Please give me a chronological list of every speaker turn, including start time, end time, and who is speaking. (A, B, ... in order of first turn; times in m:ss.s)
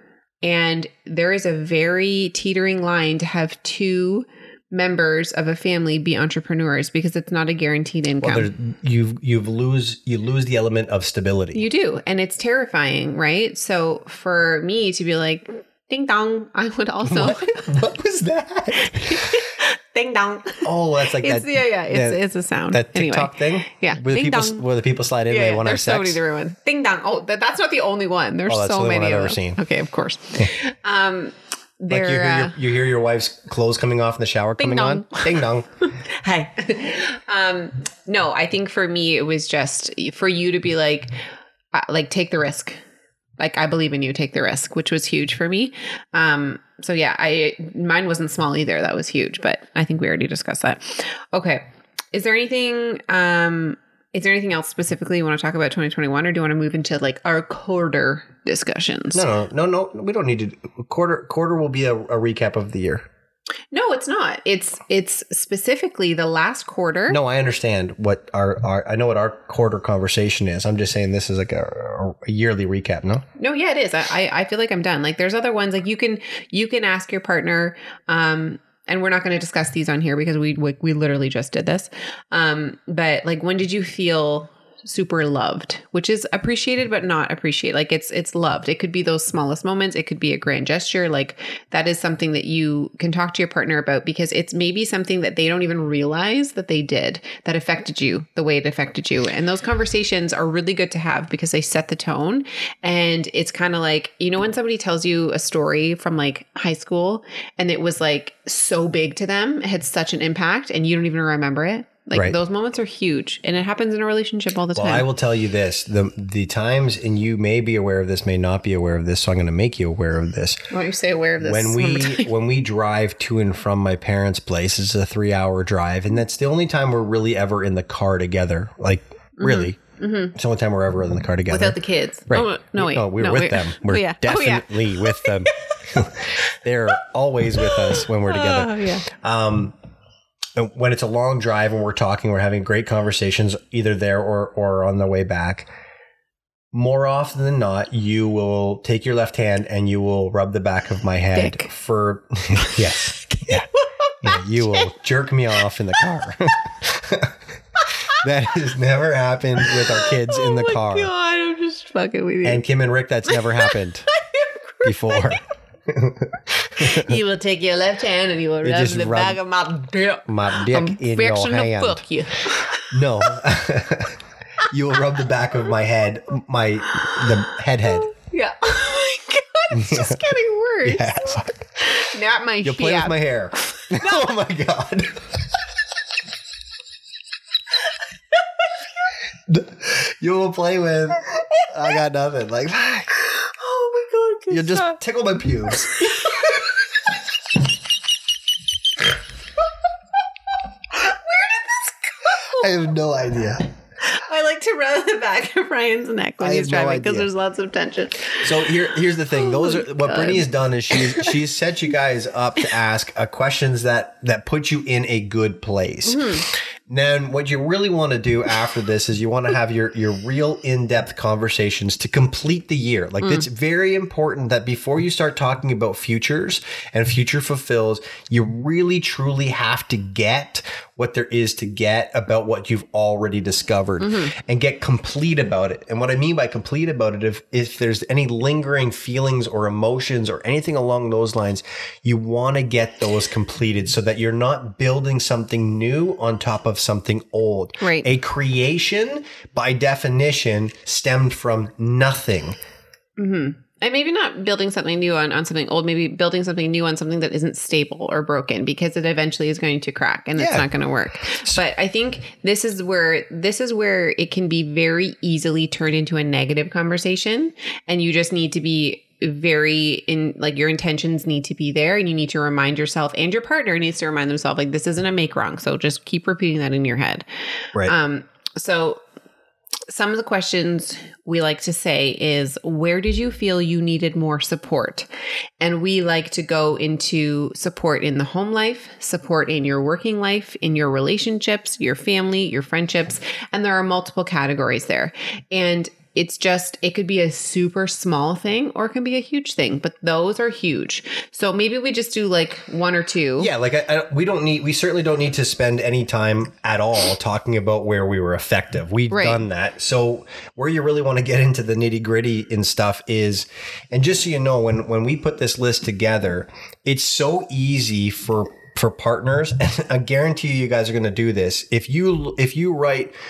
0:00.4-0:08.5 A
0:08.2-0:11.6 B
0:11.5-0:17.6 A
0:17.0-0:19.4 B
0:18.9-0:24.6 A
0:20.6-0:22.2 B
0:22.7-0:26.2 B
0:25.3-0:32.6 A
0:28.5-0:29.6 B
0:31.9-0:35.7 B
0:34.6-0:41.1 A
0:41.7-0:42.8 A
0:43.4-0:59.2 A
0:59.1-1:03.0 B
1:03.7-1:07.2 A
1:07.1-1:13.2 B
1:13.4-1:55.0 A
1:54.8-2:00.6 B
2:00.7-2:02.3 A
2:01.4-2:09.8 B
2:09.4-2:10.3 A
2:10.3-2:11.8 B
2:11.5-2:15.5 A
2:12.3-2:19.7 B
2:17.6-2:19.0 A
2:20.6-2:25.7 B
2:26.7-2:33.7 B
2:31.3-2:31.7 A
2:33.3-2:34.9 A
2:34.2-2:37.3 B
2:38.1-2:41.1 B
2:39.6-2:42.6 A
2:42.4-2:44.1 B
2:43.3-2:45.4 A
2:44.8-2:47.1 B
2:46.8-2:53.4 A
2:48.6-2:49.4 B
2:50.3-2:52.0 B
2:52.9-2:58.1 B
2:57.9-3:03.1 A
2:59.7-3:00.2 B
3:00.8-3:01.5 B
3:02.6-3:05.2 B
3:03.7-3:04.3 A
3:09.5-3:13.2 B
3:13.2-3:15.0 A
3:14.5-3:15.9 B
3:15.7-3:16.5 A
3:20.9-3:22.7 A
3:22.6-3:23.7 B
3:24.0-3:28.8 A
3:26.4-3:27.3 B
3:28.4-4:12.6 B
3:29.3-3:31.3 A
3:36.0-3:36.4 A
3:54.0-3:54.3 A
4:07.8-4:08.1 A
4:13.2-4:37.2 A
4:20.4-4:20.7 B
4:21.3-4:21.6 B
4:37.8-4:39.0 A
4:39.9-4:45.1 A
4:45.6-5:03.5 A
5:03.4-5:23.1 B
5:09.1-5:09.4 A